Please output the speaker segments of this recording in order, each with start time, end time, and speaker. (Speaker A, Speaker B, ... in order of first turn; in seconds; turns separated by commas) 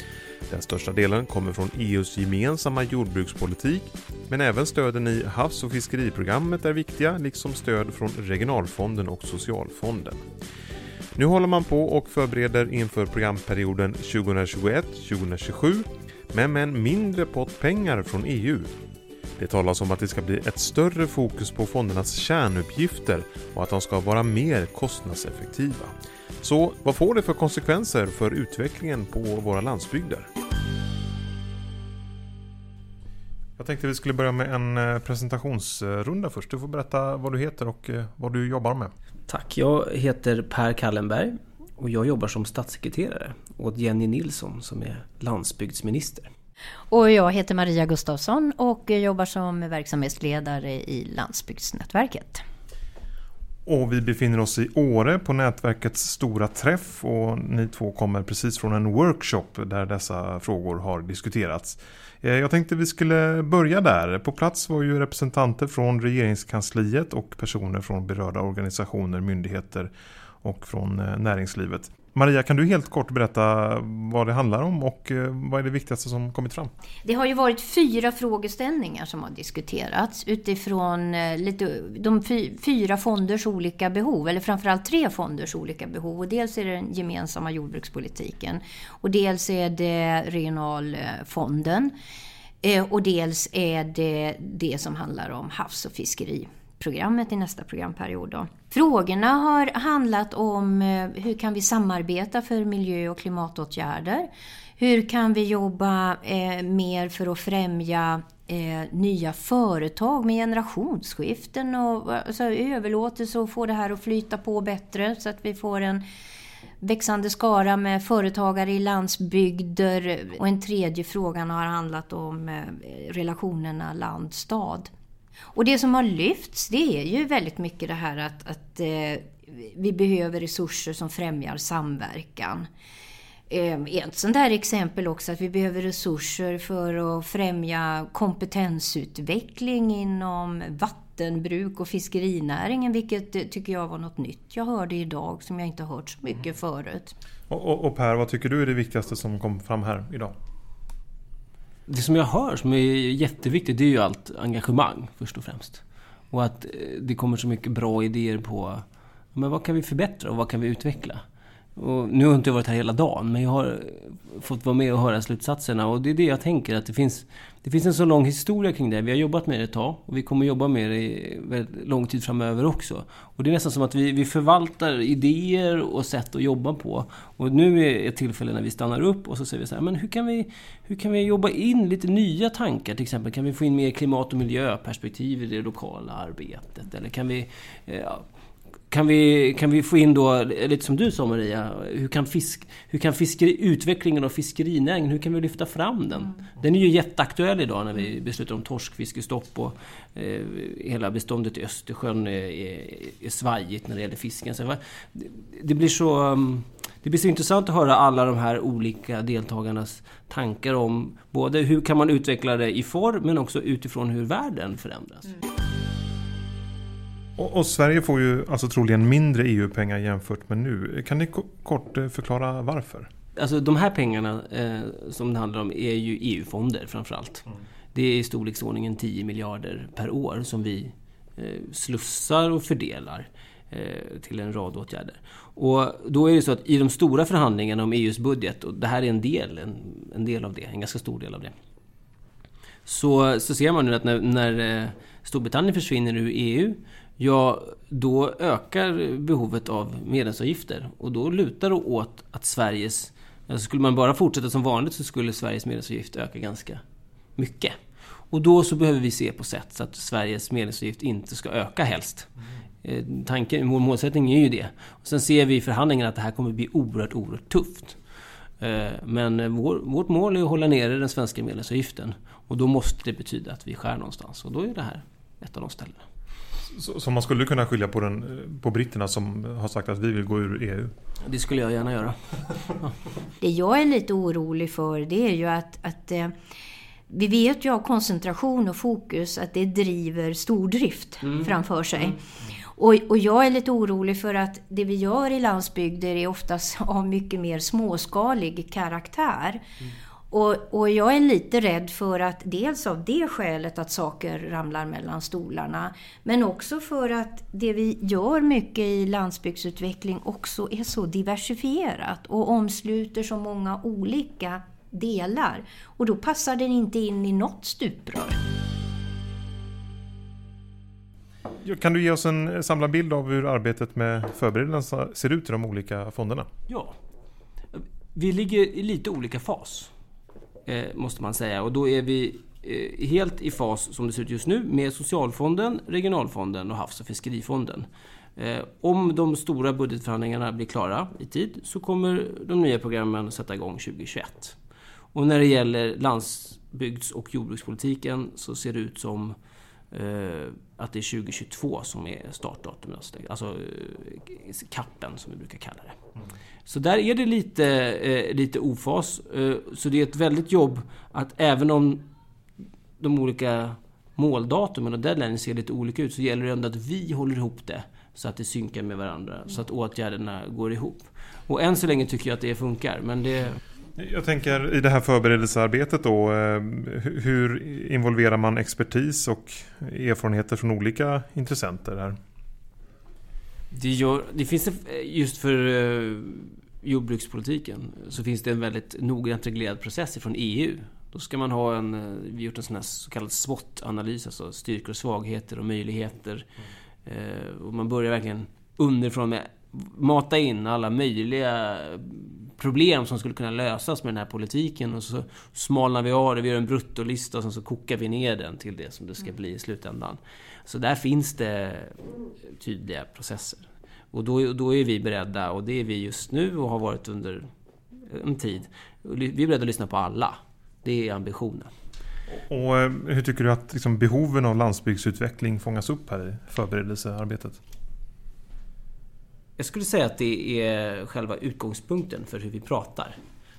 Speaker A: 0.5-10.2, Speaker A: 11.2-18.7, Speaker A: 19.4-30.3, Speaker A: 33.6-38.9, Speaker B: 39.3-46.3, Speaker C: 46.9-52.4, Speaker A: 53.6-69.9, Speaker A: 70.4-76.7, Speaker C: 77.0-91.9, Speaker C: 92.6-116.0, Speaker C: 116.8-124.9, Speaker C: 125.5-132.7, Speaker C: 133.5-147.2, Speaker A: 147.5-150.3, Speaker B: 151.9-158.8, Speaker B: 159.3-161.2, Speaker B: 161.8-188.2, Speaker B: 188.9-215.3, Speaker A: 217.4-223.1, Speaker B: 223.3-241.5, Speaker B: 242.9-256.8, Speaker B: 257.4-257.8, Speaker B: 258.3-262.3, Speaker B: 262.8-268.0, Speaker B: 268.6-276.0, Speaker A: 276.7-280.9, Speaker B: 281.2-282.2, Speaker C: 283.4-286.3, Speaker C: 287.1-299.6, Speaker B: 291.3-291.5, Speaker C: 300.3-318.4, Speaker A: 321.6-326.5, Speaker B: 326.7-326.9, Speaker B: 327.7-329.9, Speaker B: 330.6-344.6, Speaker B: 345.1-349.3, Speaker B: 349.9-356.0, Speaker B: 356.7-362.0, Speaker B: 363.0-373.6, Speaker A: 374.0-382.1, Speaker B: 383.7-396.5, Speaker B: 397.1-417.5, Speaker B: 418.0-421.7, Speaker A: 422.3-427.6, Speaker B: 429.6-433.1